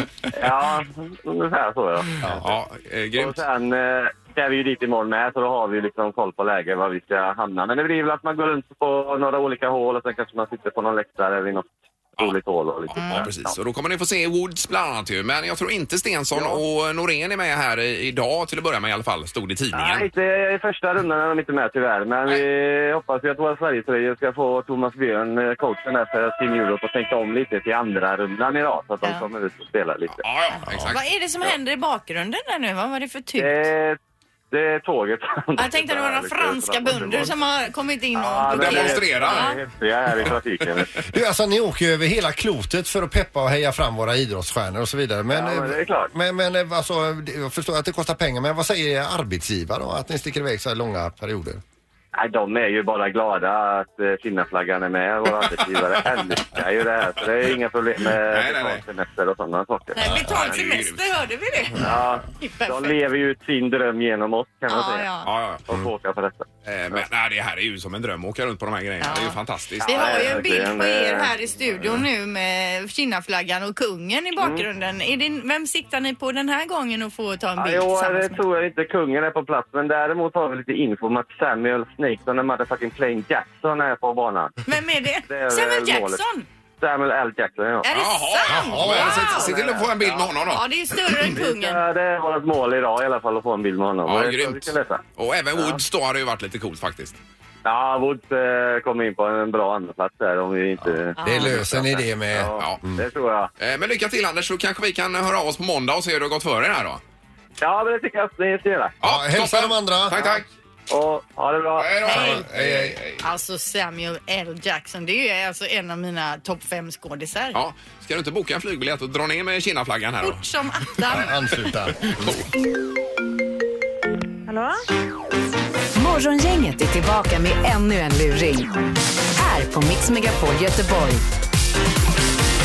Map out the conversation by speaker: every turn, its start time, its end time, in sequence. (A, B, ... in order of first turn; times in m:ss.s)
0:00.3-0:02.2 A
0:02.2-0:03.4 B
0:03.2-0:13.6 A
0:12.9-0:20.1 B
0:13.0-0:13.3 C
0:19.7-0:30.2 A
0:30.1-0:31.5 B
0:30.9-0:33.6 C
0:33.4-0:34.0 A
0:34.5-0:37.4 A
0:35.6-0:39.6 C
0:38.1-0:41.0 A
0:38.5-0:39.6 B
0:41.0-0:51.6 D
0:45.3-0:46.1 A
0:52.1-1:00.5 A
0:55.6-0:56.3 B
0:58.2-0:58.8 B
0:59.9-1:01.9 C
1:00.0-1:00.4 D
1:00.2-1:01.1 B
1:01.8-1:05.1 A
1:02.4-1:03.0 C
1:04.7-1:05.3 C
1:05.2-1:05.6 B
1:05.7-1:07.0 A
1:06.6-1:10.4 B
1:09.0-1:18.4 C
1:09.8-1:11.3 A
1:14.4-1:14.6 A
1:17.6-1:24.6 A
1:24.6-1:26.5 C
1:25.3-1:26.2 A
1:26.8-1:27.9 A
1:27.8-1:29.5 C
1:27.9-1:30.6 B
1:28.5-1:29.3 D
1:28.9-1:30.4 A
1:30.5-1:31.8 C
1:31.1-1:35.0 A
1:34.1-1:37.2 B
1:35.6-1:35.8 A
1:37.6-1:43.5 A
1:40.8-1:43.0 D
1:41.2-1:41.5 C
1:41.4-1:42.0 B
1:43.6-1:47.0 B
1:47.6-1:49.0 A
1:49.0-1:50.2 D
1:49.0-1:50.5 B
1:50.9-1:52.4 A
1:51.8-1:53.2 B
1:52.0-1:52.5 C
1:52.1-1:53.0 D
1:53.2-1:57.6 C
1:57.5-2:00.5 B
2:00.2-2:01.4 C
2:01.1-2:02.4 D
2:02.0-2:02.4 B
2:06.0-2:08.7 E
2:09.3-2:11.2 E